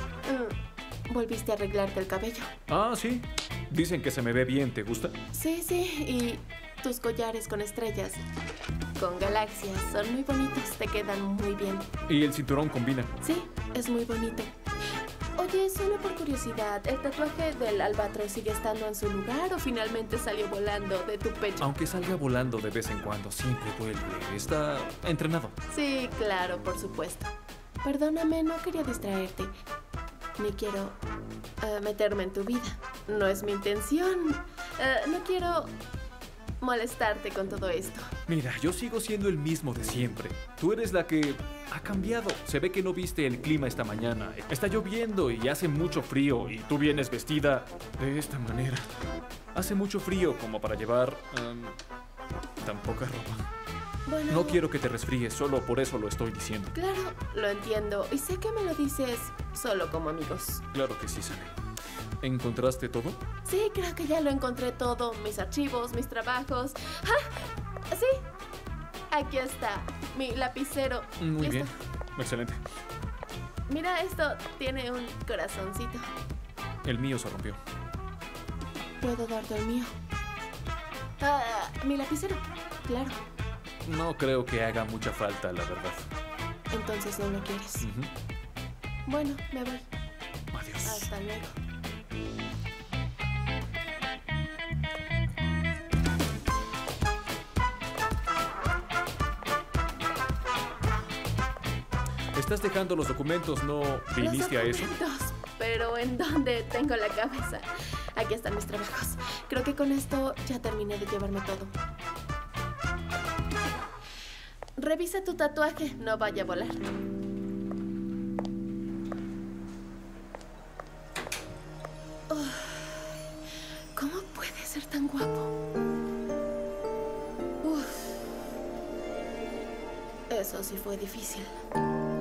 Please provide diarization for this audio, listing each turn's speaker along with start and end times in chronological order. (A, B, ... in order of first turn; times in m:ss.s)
0:00.2-0:00.6 A
0:01.1-0:02.5 A
0:02.7-0:05.2 B
0:05.3-0:08.2 A
0:09.0-0:11.9 A
0:12.1-0:13.1 B
0:13.2-0:14.5 A
0:15.4-0:21.7 A
0:21.6-0:25.5 B
0:25.7-0:27.3 A
0:27.8-0:29.5 A
0:30.4-0:31.0 A
0:31.6-0:35.7 A
0:36.6-0:38.1 A
0:38.3-0:48.9 B
0:49.5-0:51.8 B
0:52.6-0:53.4 B
0:54.1-0:54.6 A
0:54.3-0:56.7 B
0:56.8-1:00.6 A
1:00.7-1:01.6 B
1:02.2-1:03.2 B
1:03.4-1:07.4 A
1:07.9-1:08.2 A
1:09.1-1:11.7 A
1:11.2-1:12.6 B
1:13.7-1:16.1 A
1:16.8-1:17.6 B
1:19.0-1:19.9 A
1:21.2-1:23.2 A
1:23.8-1:26.1 B
1:26.7-1:27.8 A
1:27.8-1:28.1 B
1:29.1-1:29.9 A
1:30.5-1:31.1 B
1:30.8-1:31.6 A
1:42.4-1:44.9 B
1:44.2-1:51.7 A
1:54.8-1:56.8 A
2:02.3-2:03.1 A
2:04.0-2:05.5 A
2:07.6-2:08.1 A
2:10.3-2:11.6 A